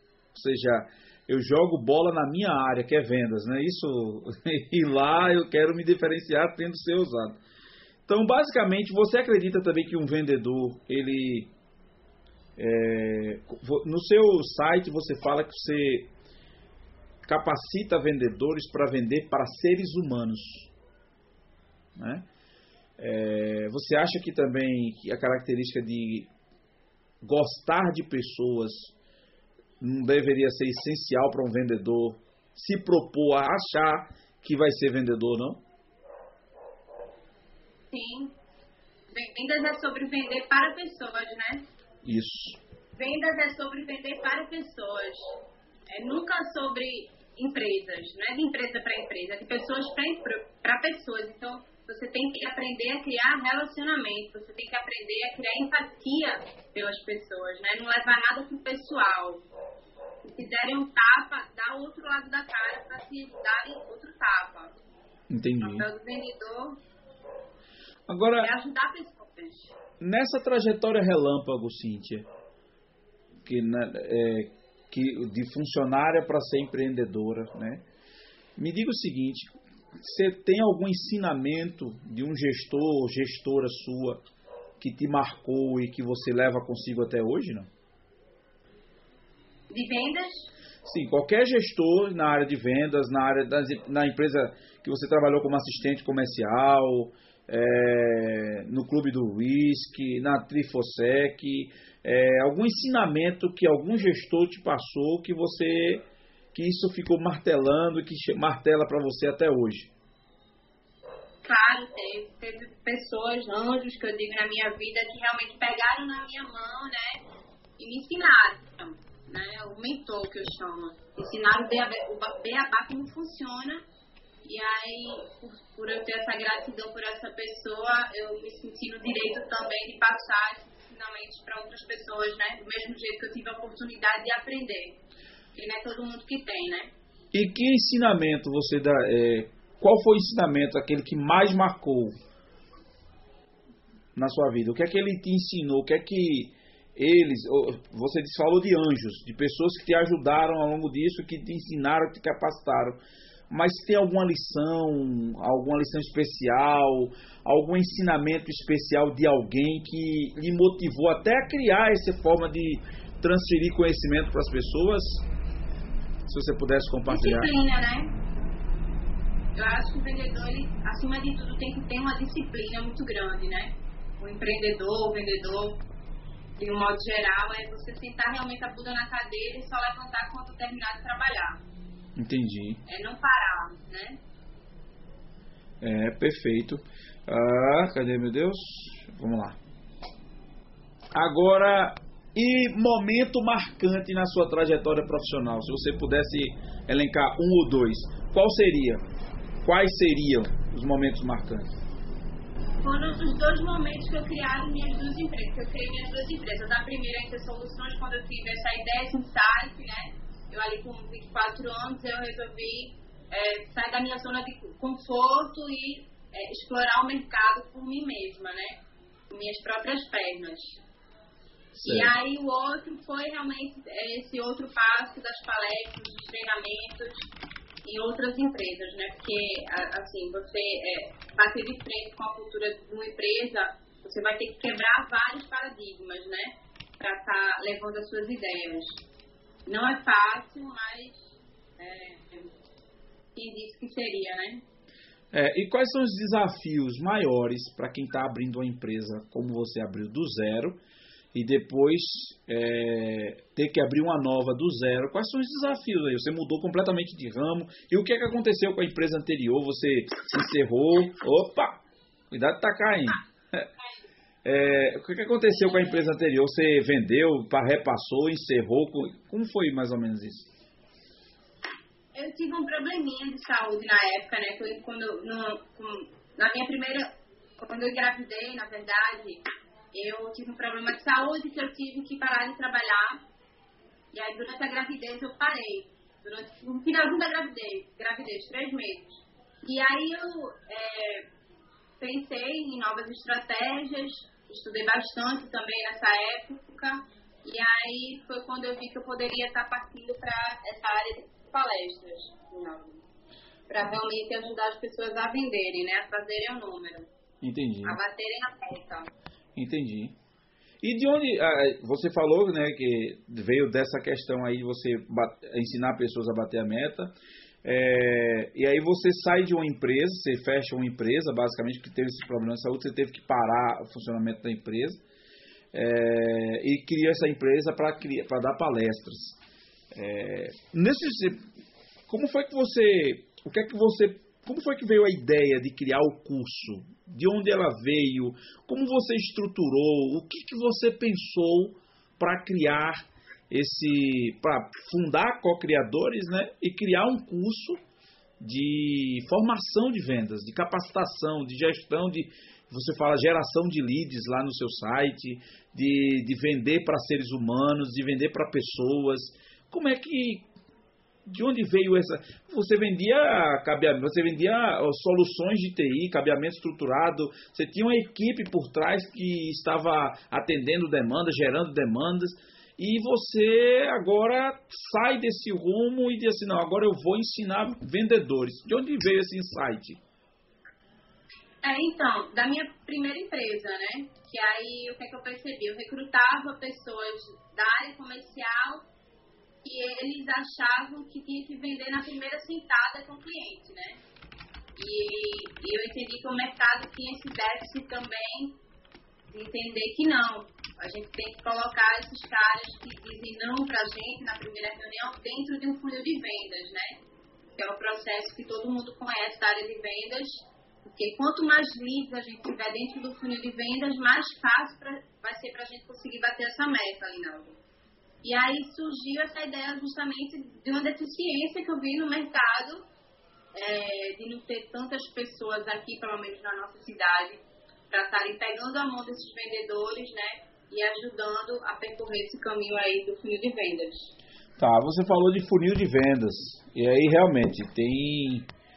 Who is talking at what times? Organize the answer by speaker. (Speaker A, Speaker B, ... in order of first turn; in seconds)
Speaker A: 0.3-7.4, 8.1-11.5, 12.6-16.1, 17.2-20.7, 21.9-22.2, 23.0-26.3, 27.2-28.9, 29.8-35.6, 42.0-42.6, 65.3-65.9, 68.1-68.5, 70.0-72.2, 73.4-77.8, 78.5-84.2, 84.8-87.7, 90.8-109.9, 137.3-142.1, 144.1-153.0, 153.5-165.2, 166.3-167.5, 182.2-182.8, 185.8-189.6, 191.1-199.0, 199.6-201.7, 221.8-222.1, 245.3-250.8, 251.3-261.8, 262.3-263.7, 264.4-270.5, 307.4-308.0, 309.6-310.1, 310.8-317.1, 317.6-325.0, 325.7-329.4, 329.9-331.4, 332.1-347.8, 348.4-360.5, 361.2-380.0, 434.6-438.5
Speaker B: 37.9-38.4, 39.1-41.6, 43.0-45.4, 45.9-59.4, 60.2-64.7, 65.6-66.8, 68.4-69.7, 89.7-90.5, 111.4-117.2, 117.8-123.8, 124.4-135.0, 135.5-136.9, 167.1-168.1, 169.5-175.8, 176.6-181.6, 182.9-184.2, 202.8-220.8, 221.8-227.3, 227.8-239.0, 239.7-242.5, 243.3-244.6, 272.1-283.2, 284.1-291.3, 292.0-303.0, 303.7-307.1, 307.9-309.1, 381.6-388.9, 389.6-394.0, 394.8-398.6, 399.3-407.0, 407.6-417.6, 418.2-422.9, 423.5-427.4, 427.9-434.1